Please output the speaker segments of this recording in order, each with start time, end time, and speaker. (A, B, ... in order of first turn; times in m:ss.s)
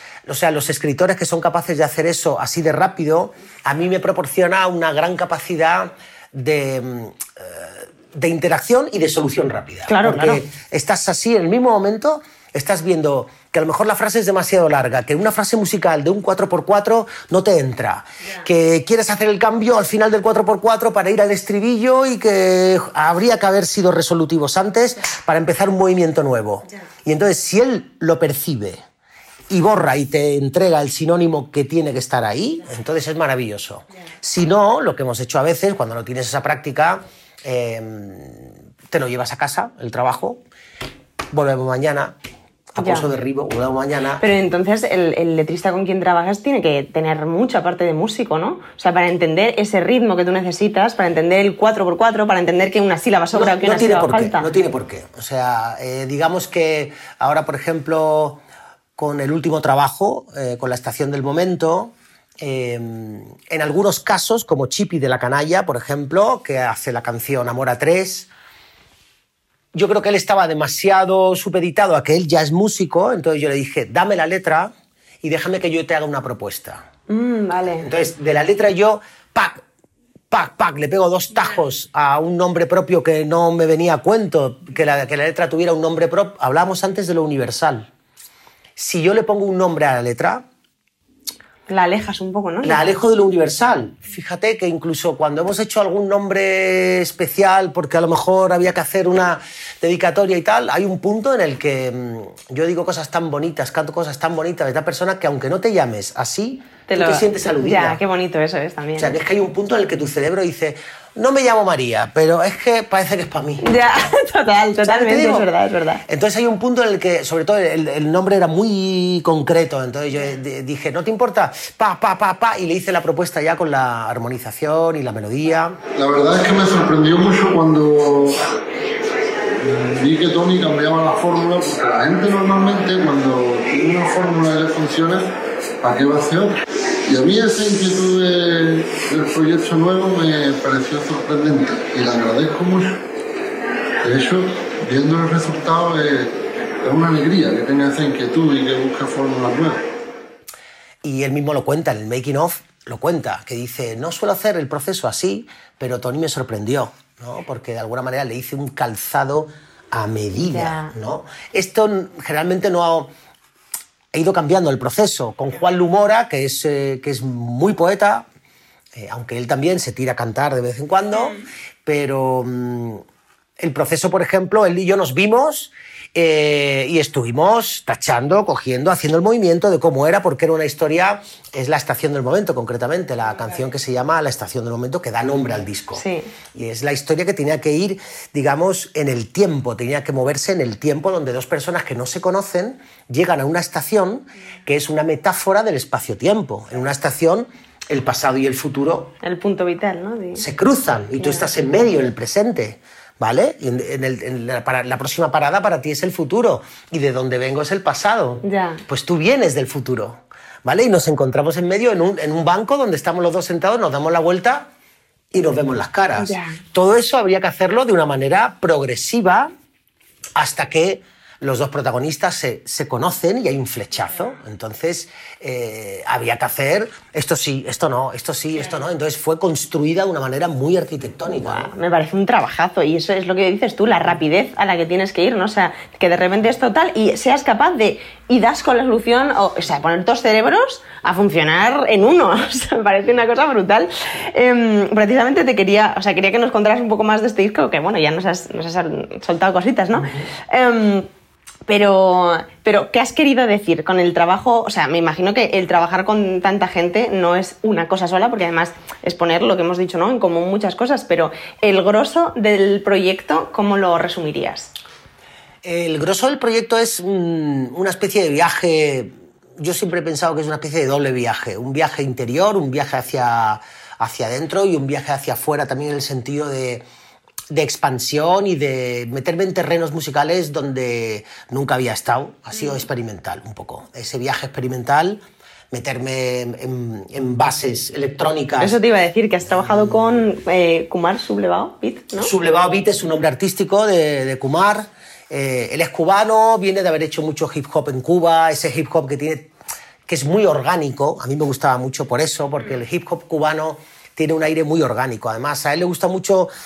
0:00.3-0:28.8 A
0:09.9-0:10.4 B
0:29.5-0:40.4 A
0:41.3-0:42.2 A
0:42.7-0:44.2 A
0:42.8-0:43.0 B
0:44.2-0:54.5 B
0:53.3-0:58.4 A
0:59.0-1:08.3 A
1:09.7-1:16.8 A
1:17.1-1:17.9 B
1:17.8-1:19.6 A
1:20.3-1:27.9 A
1:28.8-1:30.4 A
1:31.7-1:32.8 B
1:32.6-1:48.0 A
1:46.9-1:49.1 B
1:49.0-1:53.8 A
1:53.6-1:56.0 B
1:54.7-1:55.5 A
1:56.0-2:05.8 A
2:06.0-2:08.5 C
2:09.6-2:15.3 C
2:15.8-2:23.0 C
2:24.0-2:29.8 C
2:31.0-2:43.1 A
2:40.4-2:40.9 B
2:44.1-2:48.2 A
2:48.9-2:53.0 A
2:53.6-3:19.1 A
3:06.0-3:06.3 B
3:19.2-3:20.4 B
3:20.4-3:34.7 A
3:21.2-3:21.5 B
3:28.4-3:28.8 B
3:35.3-3:39.5 A
3:36.2-3:36.6 B
3:40.3-3:51.7 A
3:51.4-4:11.1 B
4:11.7-4:24.7 B
4:25.6-4:36.8 A
4:37.5-4:48.8 A
4:48.6-4:52.3 B
4:49.5-4:50.2 A
4:52.2-4:59.5 A
5:00.1-5:06.5 A